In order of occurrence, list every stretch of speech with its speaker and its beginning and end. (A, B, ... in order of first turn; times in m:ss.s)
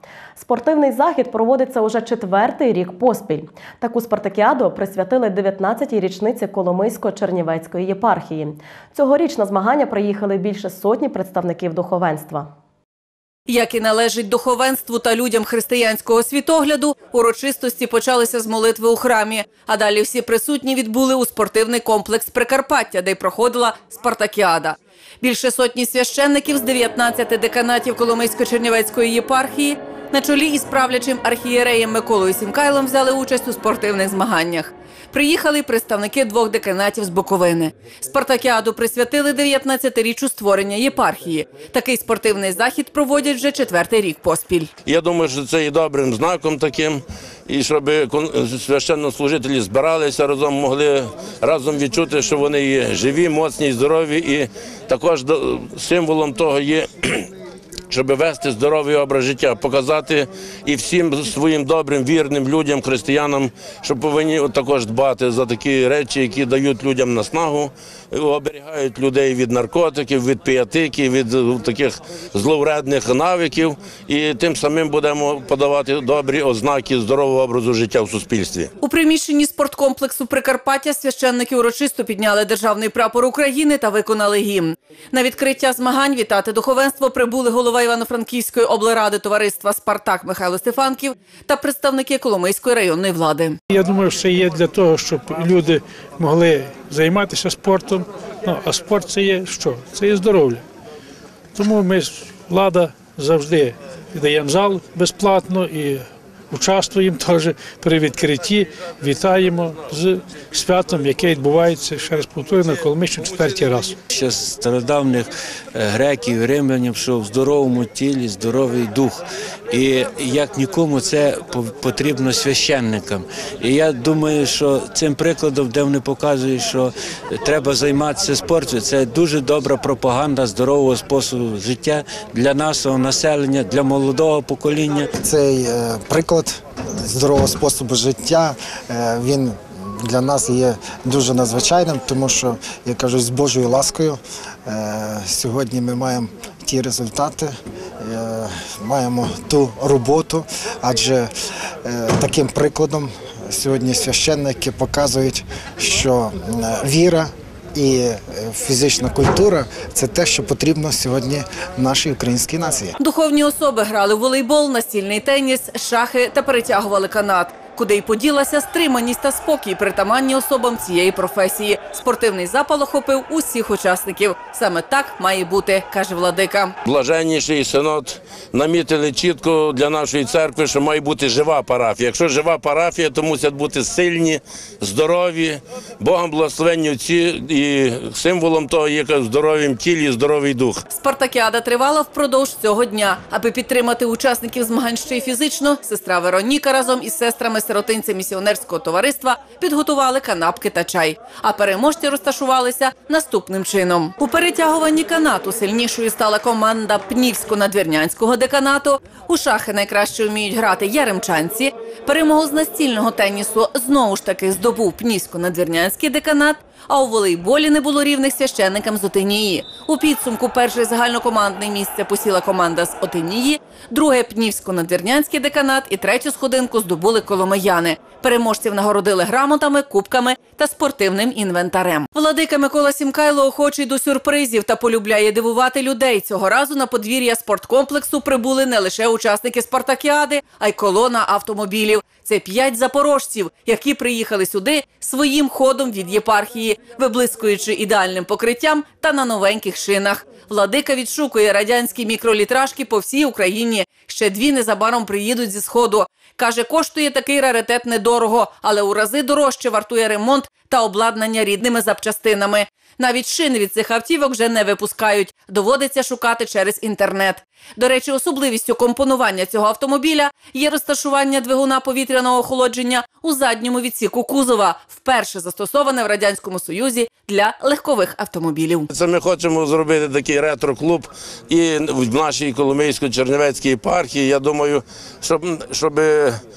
0:00.4-0:12.5 A
0:13.5-0:44.7 B
0:44.8-0:57.3 C
0:57.9-1:18.7 C
1:18.8-1:33.6 B
1:33.7-1:40.6 D
1:41.6-1:54.0 D
1:54.1-2:15.1 E
2:15.2-2:31.3 F
2:31.8-2:43.0 F
2:43.0-2:56.7 B
2:56.8-3:10.8 C
3:10.9-4:38.9 B
4:38.9-4:46.4 C